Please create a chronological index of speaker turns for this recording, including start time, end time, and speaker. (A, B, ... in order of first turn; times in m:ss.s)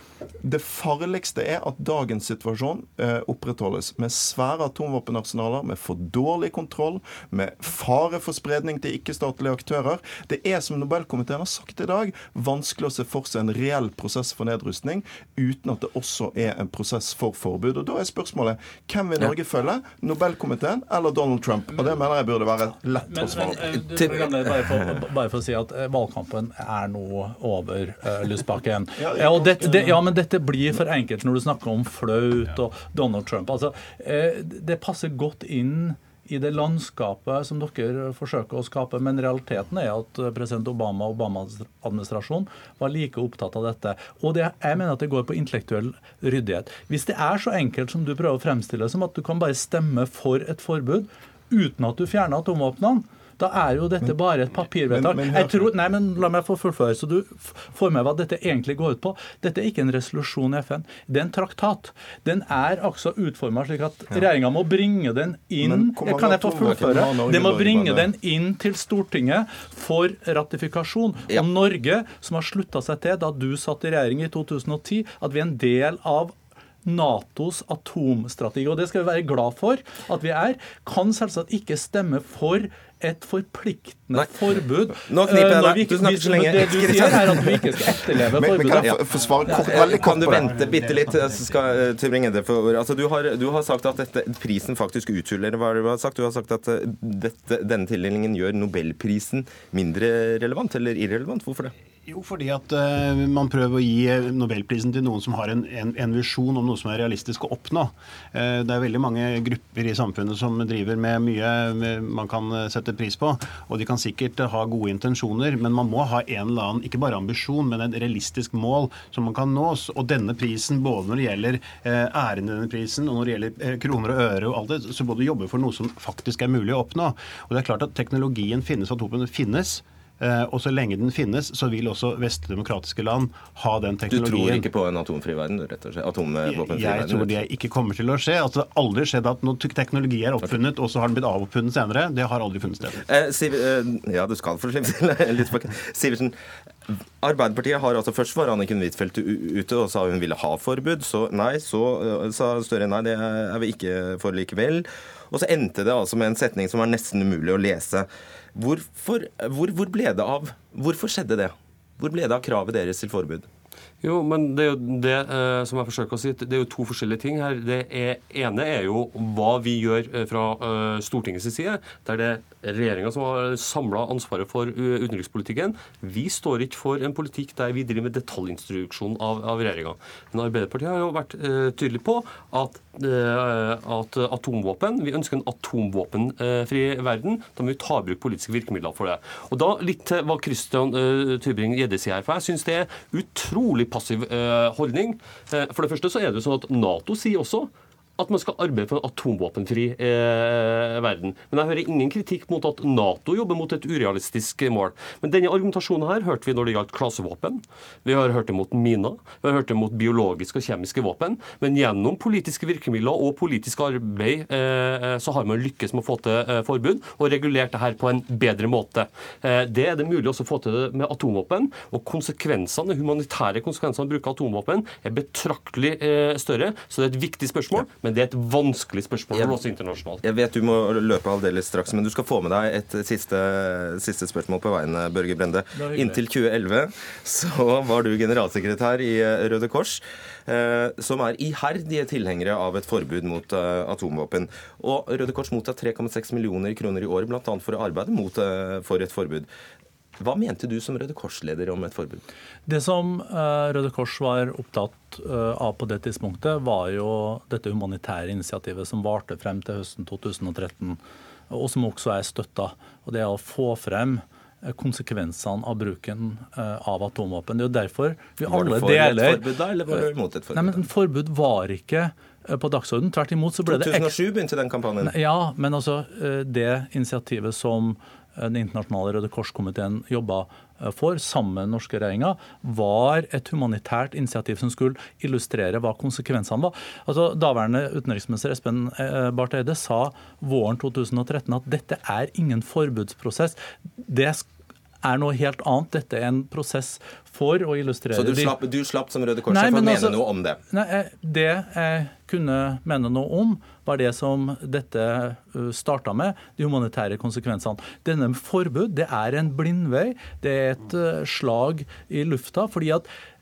0:00.4-0:23.7 A
0:23.0-1:29.0 B
0:29.0-0:30.0 A
0:54.9-0:55.7 A
1:05.6-1:08.1 A
1:25.0-1:27.6 C
1:28.3-1:30.5 A
1:28.7-1:29.0 C
1:29.2-1:31.7 D
1:29.5-1:41.7 C
1:42.1-2:14.7 D
2:14.1-2:17.4 C
2:16.4-2:23.0 D
2:23.1-2:26.4 C
2:26.9-2:43.5 C
2:44.0-3:50.2 E
3:50.2-4:09.5 C
3:55.8-3:56.2 B
4:10.2-4:12.2 C
4:12.7-4:21.0 B
4:21.5-4:34.1 B
4:28.5-4:30.8 C
4:33.7-4:35.2 C
4:35.0-4:54.5 B
4:55.0-4:58.5 B
4:58.1-5:00.6 C
4:59.5-5:13.1 B